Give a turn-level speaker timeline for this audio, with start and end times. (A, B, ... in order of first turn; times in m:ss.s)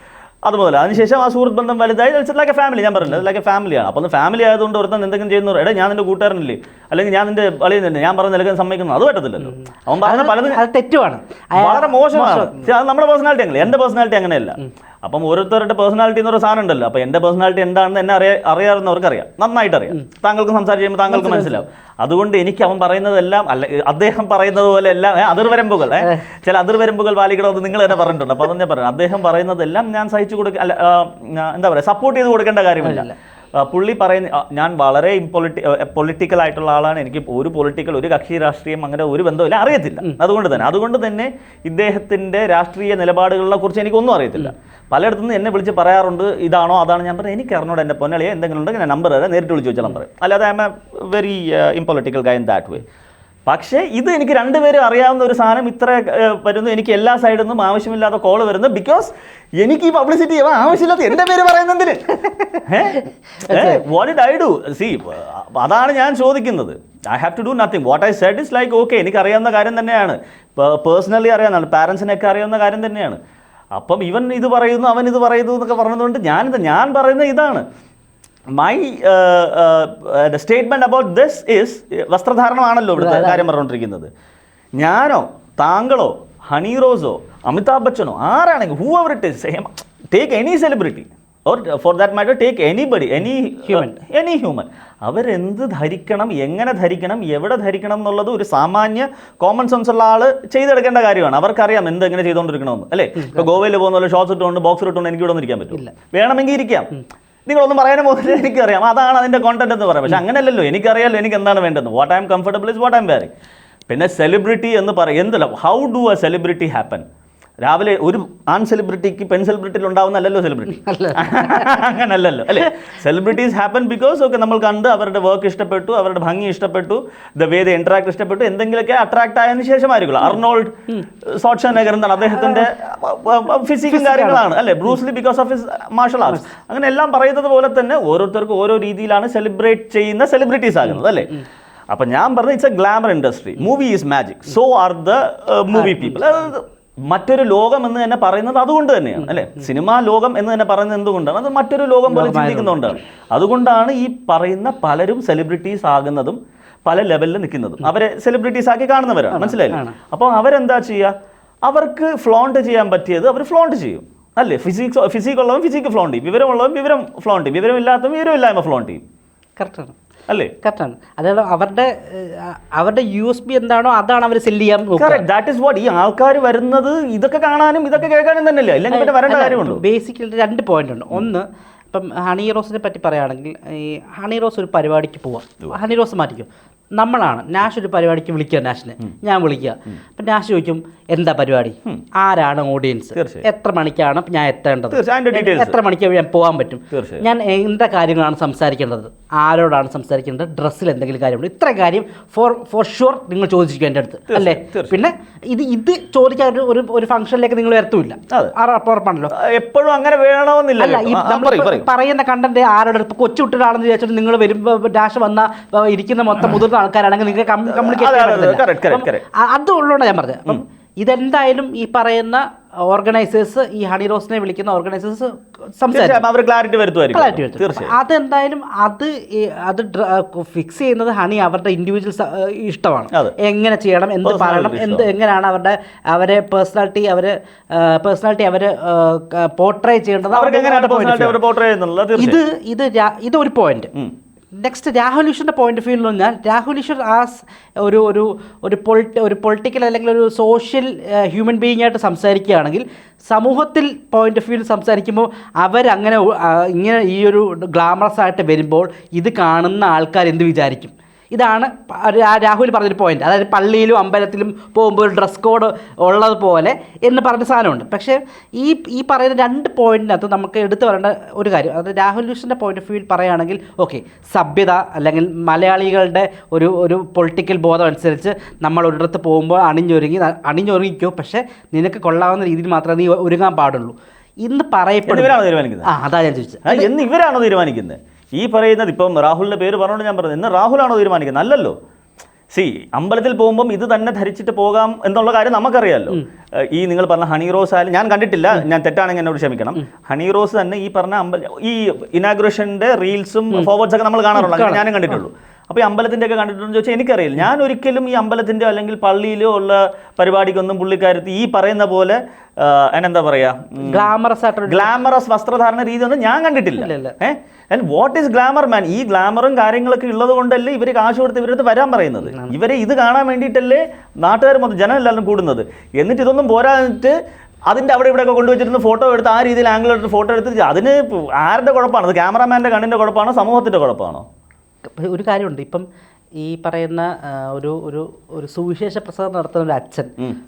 0:00.4-0:10.6 A
0:10.0-0:12.7 B
0:11.6-0:52.8 A
0:21.1-0:21.6 B
0:32.8-0:33.1 B
0:53.5-1:02.1 A
1:02.6-1:13.2 A
1:03.4-1:03.8 B
1:13.8-1:17.6 A
1:18.5-1:24.1 A
1:23.0-1:23.5 B
1:24.8-1:46.9 A
1:33.7-1:34.0 B
1:47.5-1:53.3 A
1:53.9-1:57.0 A
1:57.6-2:10.8 A
2:00.7-2:01.8 B
2:11.3-2:21.4 A
2:12.4-2:12.6 B
2:13.9-2:14.4 B
2:21.9-2:41.1 A
2:25.8-2:26.4 B
2:29.2-2:29.7 B
2:32.1-2:33.0 B
2:39.3-2:40.0 B
2:41.6-2:49.0 A
2:49.6-2:49.9 B
2:50.3-2:50.5 A
2:50.6-2:55.2 B
2:55.0-2:59.8 A
2:58.9-3:29.3 B
3:13.1-3:13.5 A
3:14.9-3:15.8 A
3:16.9-3:17.2 A
3:24.3-3:25.0 A
3:29.3-3:31.9 A
3:30.8-3:46.2 B
3:37.7-3:39.2 A
3:45.9-3:48.0 A
3:47.1-4:01.4 B
3:54.2-3:55.1 A
4:00.3-4:02.4 A
4:02.2-4:03.9 B
4:04.6-4:46.9 B
4:45.1-4:45.9 A
4:46.7-4:51.8 A
4:52.5-5:14.1 A
5:04.4-5:04.8 B
5:13.8-5:15.0 B
5:14.7-5:27.2 A
5:16.8-5:17.2 B
5:27.7-5:34.2 A
5:35.0-5:35.9 B
5:36.4-5:40.1 B